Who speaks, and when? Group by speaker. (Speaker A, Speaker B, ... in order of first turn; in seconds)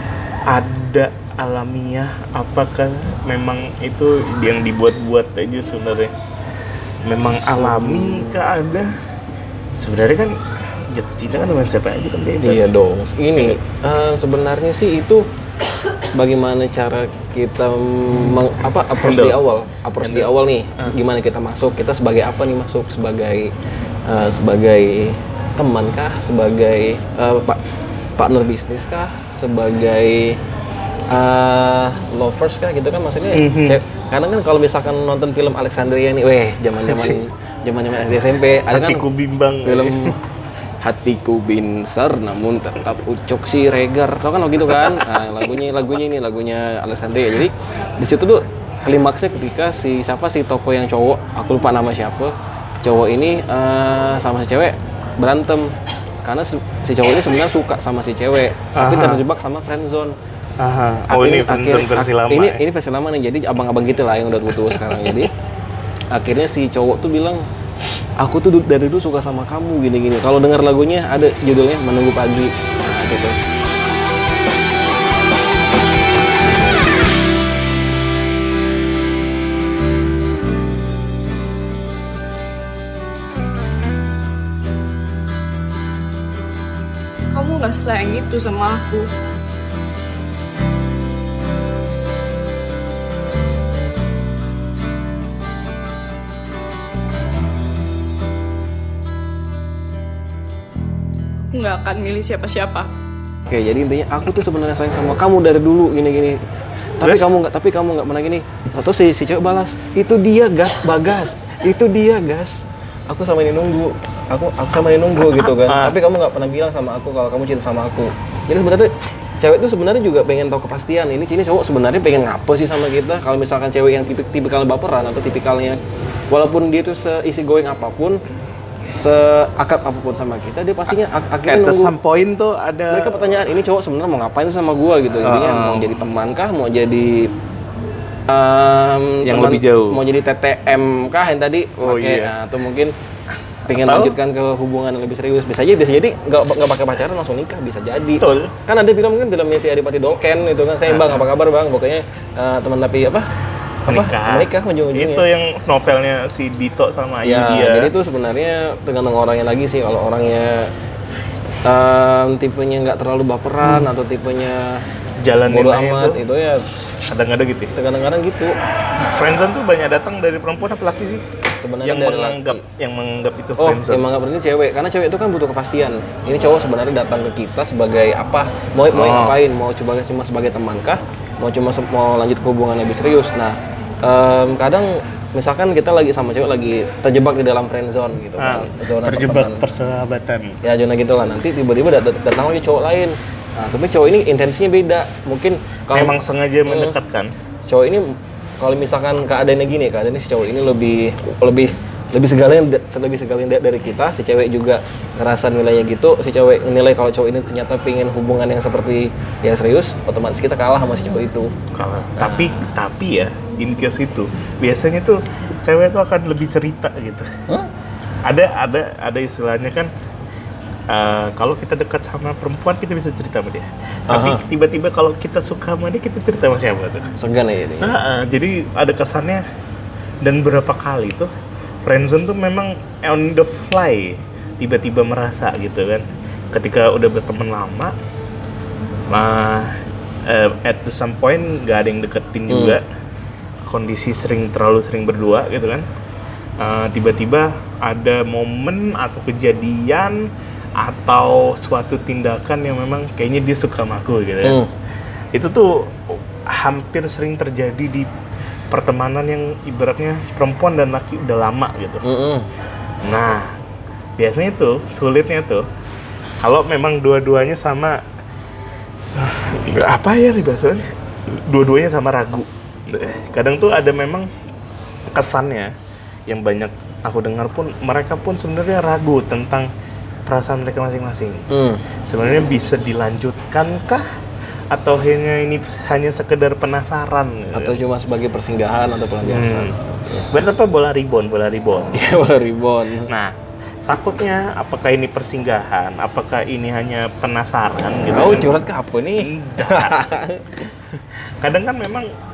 Speaker A: 0.5-6.1, 7.0-8.9, 9.7-12.7, 18.9-19.4, 20.0-20.9, 33.3-33.8, 36.9-37.2, 38.7-40.2, 44.7-45.0, 58.7-59.2, 60.6-62.6, 64.6-65.3, 107.0-107.3, 115.3-116.0, 131.4-133.5, 135.2-136.0, 139.2-140.0, 141.8-142.3, 143.7-144.2, 148.2-148.5, 150.8-151.3, 153.8-157.9, 165.2-166.2, 167.1-167.7, 169.0-171.2, 171.8-174.1, 178.9-179.4, 188.4-190.6, 195.9-197.3, 211.7-217.3, 218.2-219.9, 220.9-227.1, 227.8-229.4, 230.2-231.3, 231.8-237.9, 239.1-242.8, 243.6-245.8, 246.6-250.2, 250.8-254.6, 255.3-258.1, 258.7-262.0, 263.0-263.6, 264.2-265.6, 266.4-268.0, 269.1-274.3, 275.1-275.7, 276.3-279.7, 280.2-281.5, 282.1-284.0, 284.7-287.8, 289.2-289.8, 290.3-292.0, 293.1-298.6, 299.2-300.1, 301.4-302.1
Speaker B: 7.5-8.4, 12.4-15.2, 16.1-23.5, 24.1-27.6, 28.2-30.4, 31.1-39.0, 39.6-40.1, 40.8-60.1, 61.1-65.3, 66.1-67.4, 68.2-73.4, 103.5-106.4, 107.0-125.8, 126.3-128.2, 129.0-131.9, 132.9-137.3, 138.3-142.9, 143.7-153.3, 153.9-155.2, 157.2-160.7, 161.6-164.8, 165.5-166.7, 167.7-168.5, 171.6-172.6, 173.6-189.6, 190.6-196.9, 197.7-211.5, 212.2-212.5, 224.1-224.4, 227.2-228.0, 242.5-242.8, 254.4-254.7, 262.0-262.4, 281.5-281.8, 287.5-290.2, 291.9-293.1, 298.1-300.7
Speaker C: 87.3-89.1, 101.5-102.9